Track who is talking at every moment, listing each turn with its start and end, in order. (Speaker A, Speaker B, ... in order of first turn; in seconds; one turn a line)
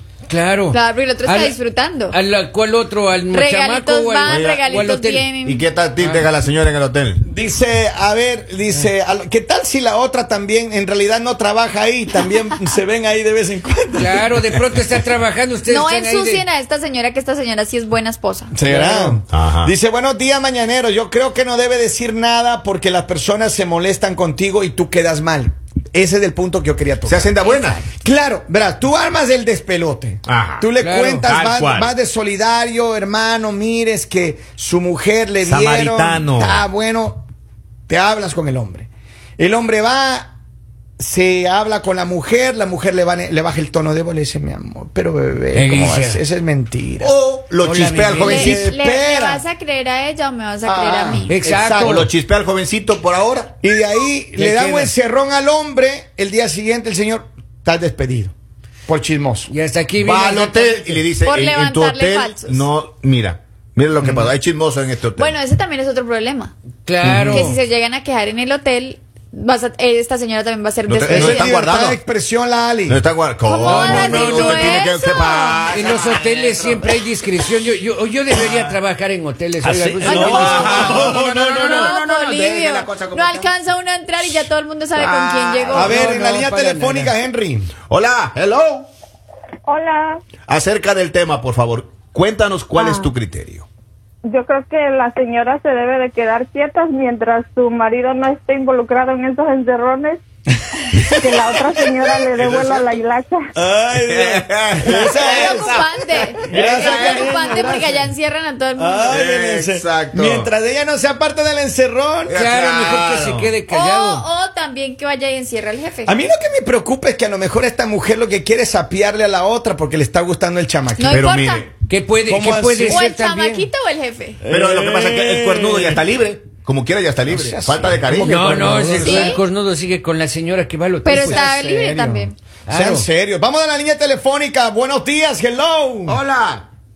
Speaker A: 0.3-5.4
Speaker B: 0.7-2.1
Speaker B: 3.3-5.6
Speaker C: 4.2-4.7
Speaker C: 5.4-7.2
Speaker A: 6.0-6.3
Speaker D: 7.2-14.3
Speaker A: 14.0-16.4
Speaker B: 15.7-18.5
Speaker D: 18.5-27.3
Speaker A: 18.6-19.2
Speaker C: 19.3-19.7
Speaker C: 27.0-27.8
Speaker B: 27.4-27.9
Speaker D: 28.0-37.2
Speaker C: 30.3-30.7
Speaker A: 30.8-31.3
Speaker C: 31.2-31.9
Speaker C: 35.4-36.6
Speaker D: 37.9-40.3
Speaker D: 41.0-47.1
Speaker A: 45.5-46.2
Speaker C: 47.0-48.6
Speaker A: 47.6-48.5
Speaker D: 48.2-49.4
Speaker B: 48.2-51.4
Speaker D: 50.6-52.1
Speaker A: 51.3-52.1
Speaker C: 51.8-53.5
Speaker D: 53.6-58.3
Speaker A: 54.4-54.9
Speaker D: 58.9-59.5
Speaker A: 59.5-61.0
Speaker C: 60.0-65.3
Speaker B: 61.2-62.6
Speaker B: 65.2-66.5
Speaker A: 66.8-67.6
Speaker C: 67.0-67.5
Speaker B: 67.2-71.5
Speaker C: 70.9-72.0
Speaker D: 71.1-73.0
Speaker C: 72.9-76.9
Speaker B: 73.5-75.7
Speaker A: 73.6-74.8
Speaker A: 75.5-81.9
Speaker D: 79.6-81.4
Speaker C: 80.0-83.5
Speaker B: 81.3-86.0
Speaker C: 84.9-85.7
Speaker A: 85.7-87.1
Speaker D: 85.7-87.7
Speaker C: 87.9-88.9
Speaker E: 89.7-90.2
Speaker C: 90.5-93.7
Speaker E: 92.8-93.1
Speaker E: 94.2-100.2
Speaker D: 101.0-102.3
Speaker E: 101.1-103.5
Speaker C: 102.4-103.0
Speaker D: 103.5-108.1
Speaker C: 103.9-105.8
Speaker B: 105.2-109.2
Speaker C: 106.4-107.7
Speaker D: 108.8-112.4
Speaker C: 109.1-110.5
Speaker A: 112.3-114.2
Speaker C: 112.3-113.5
Speaker B: 113.7-116.2
Speaker D: 116.0-121.2
Speaker B: 121.0-121.7
Speaker C: 121.1-121.7
Speaker A: 121.9-123.7
Speaker D: 122.2-123.0
Speaker B: 122.8-124.4
Speaker D: 124.4-126.0
Speaker C: 124.5-128.6
Speaker D: 127.3-129.4
Speaker A: 128.1-131.4
Speaker B: 129.0-129.4
Speaker B: 131.0-132.3
Speaker D: 131.2-136.2
Speaker A: 132.7-133.1
Speaker C: 136.1-136.7